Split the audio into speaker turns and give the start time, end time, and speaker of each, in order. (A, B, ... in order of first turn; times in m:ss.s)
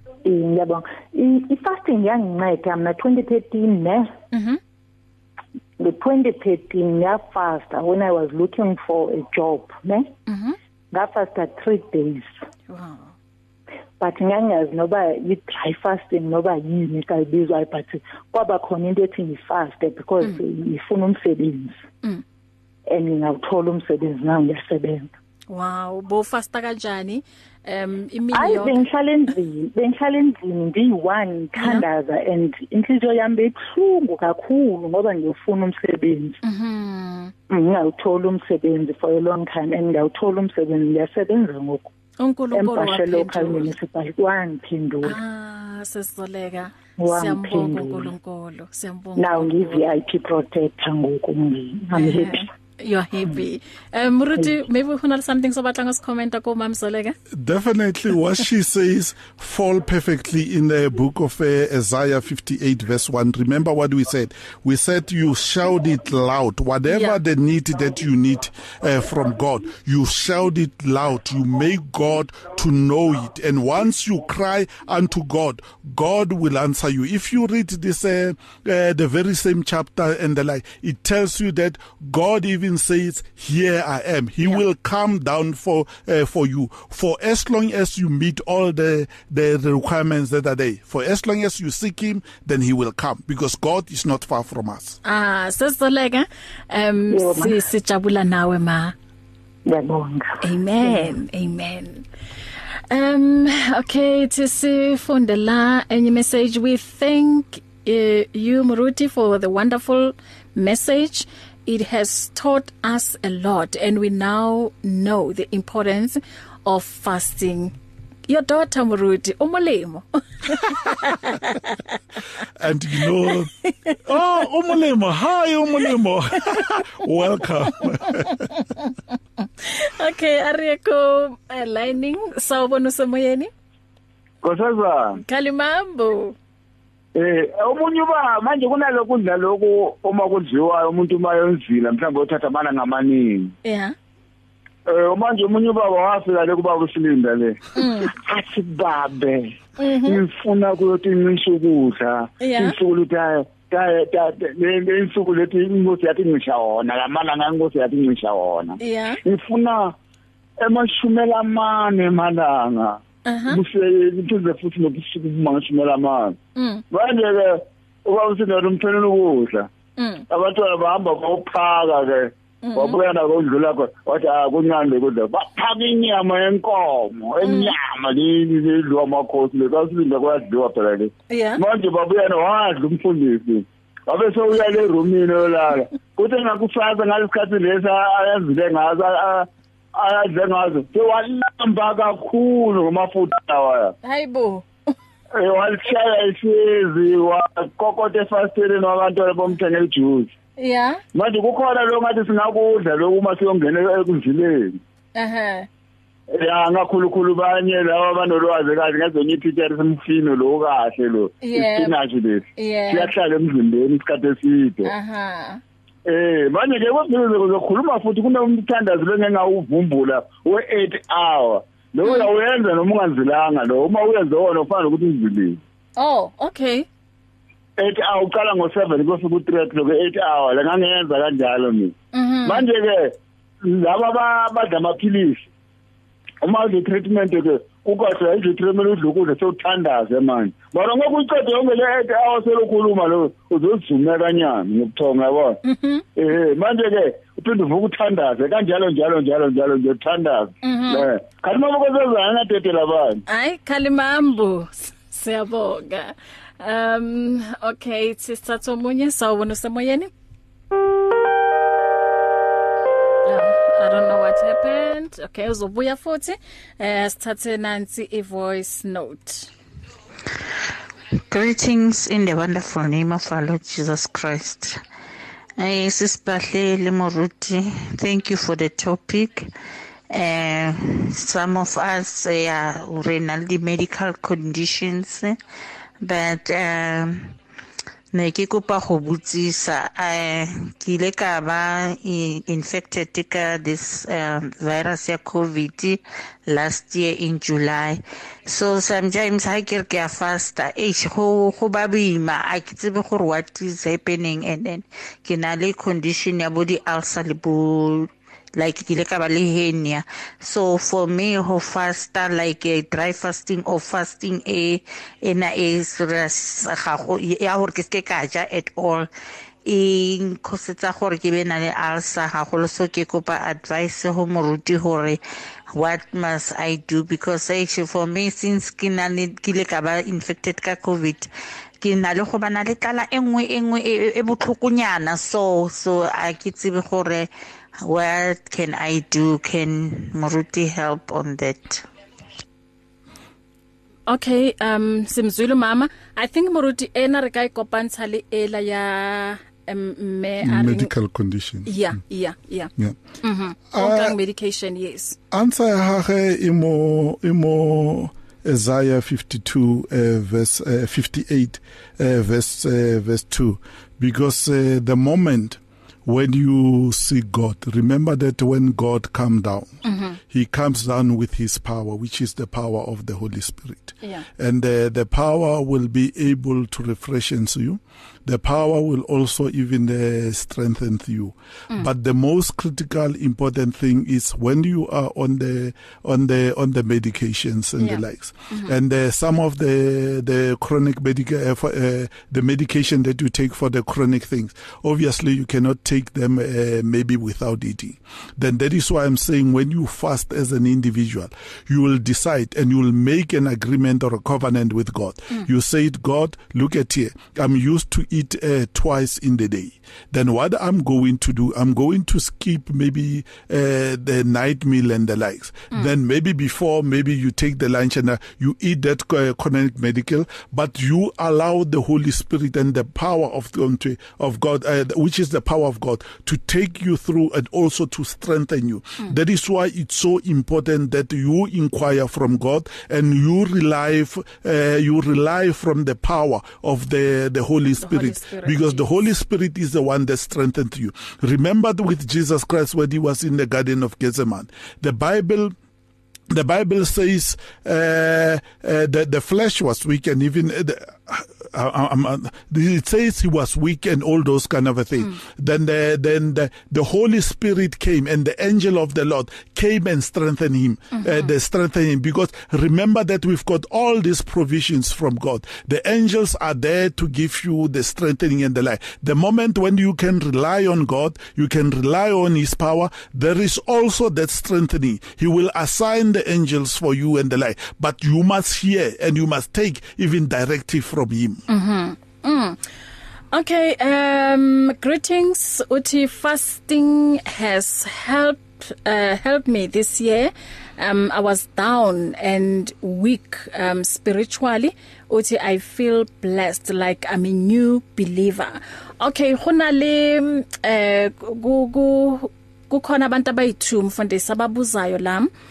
0:00.2-0:04.1 A
0:04.3-0:04.6 B
0:05.8-0:10.1 A
0:10.3-0:10.6 B
0:10.9-0:12.3 A
0:12.7-0:13.1 B
0:14.0-0:21.8 A
0:22.9-0:25.1 A
0:25.5-0:28.8 B
0:28.3-0:36.4 A
0:31.6-0:31.8 B
0:36.4-0:37.3 B
0:37.5-0:41.9 A
0:42.2-0:43.7 B
0:42.5-0:45.2 A
0:45.0-0:49.8 B
0:47.0-0:48.1 A
0:49.2-0:52.4 A
0:51.9-0:57.2 B
0:57.3-1:35.0 C
1:06.9-1:07.2 B
1:35.0-1:38.9 B
1:37.1-1:37.6 A
1:39.6-1:41.1 A
1:40.4-1:42.0 B
1:42.9-1:57.7 B
1:58.3-2:01.8 B
2:02.6-2:03.5 C
2:04.0-2:08.5 C
2:09.6-2:13.5 B
2:14.4-2:15.2 D
2:15.2-2:16.4 B
2:17.1-2:23.5 D
2:23.6-2:23.9 B
2:24.9-2:39.9 D
2:27.8-2:28.1 B
2:29.8-2:30.2 B
2:32.4-2:32.7 B
2:38.8-2:39.2 B
2:40.6-2:46.4 D
2:43.2-2:43.6 B
2:46.6-2:46.8 B
2:46.9-2:49.7 D
2:50.0-2:50.2 B
2:50.3-3:13.9 D
2:52.6-2:53.0 B
2:57.4-2:57.7 B
3:01.3-3:01.6 B
3:14.0-3:14.7 B
3:15.3-3:20.3 D
3:20.6-3:21.0 B
3:21.1-3:24.8 D
3:25.1-3:25.7 B
3:26.3-3:34.9 D
3:31.4-3:31.9 B
3:32.6-3:33.1 B
3:34.8-3:35.6 B
3:36.0-3:45.6 D
3:42.0-3:42.3 B
3:46.0-3:46.9 B
3:47.8-3:55.5 D
3:52.1-3:52.6 B
3:56.4-4:05.6 D
4:05.6-4:06.0 B
4:06.2-4:13.2 D
4:10.6-4:11.1 B
4:13.3-4:20.1 B
4:23.2-4:29.5 B
4:31.3-4:34.8 E
4:35.6-4:39.5 E
4:40.1-4:45.4 E
4:46.0-4:47.3 E
4:48.1-5:19.1 E
5:19.6-5:25.2 E
5:25.7-5:31.3 E
5:31.8-5:37.3 E
5:37.8-5:41.8 E
5:44.1-5:50.9 B
5:50.4-5:52.0 C
5:51.6-5:52.7 B
5:53.2-5:55.2 B
5:53.7-5:54.2 C
5:55.3-6:09.7 C
6:09.8-6:10.2 B
6:10.3-7:25.5 C
6:27.8-6:28.7 B
7:17.8-7:18.9 B
7:26.3-8:01.4 C
7:41.0-7:41.3 B
8:01.5-8:02.6 B
8:03.3-8:25.3 B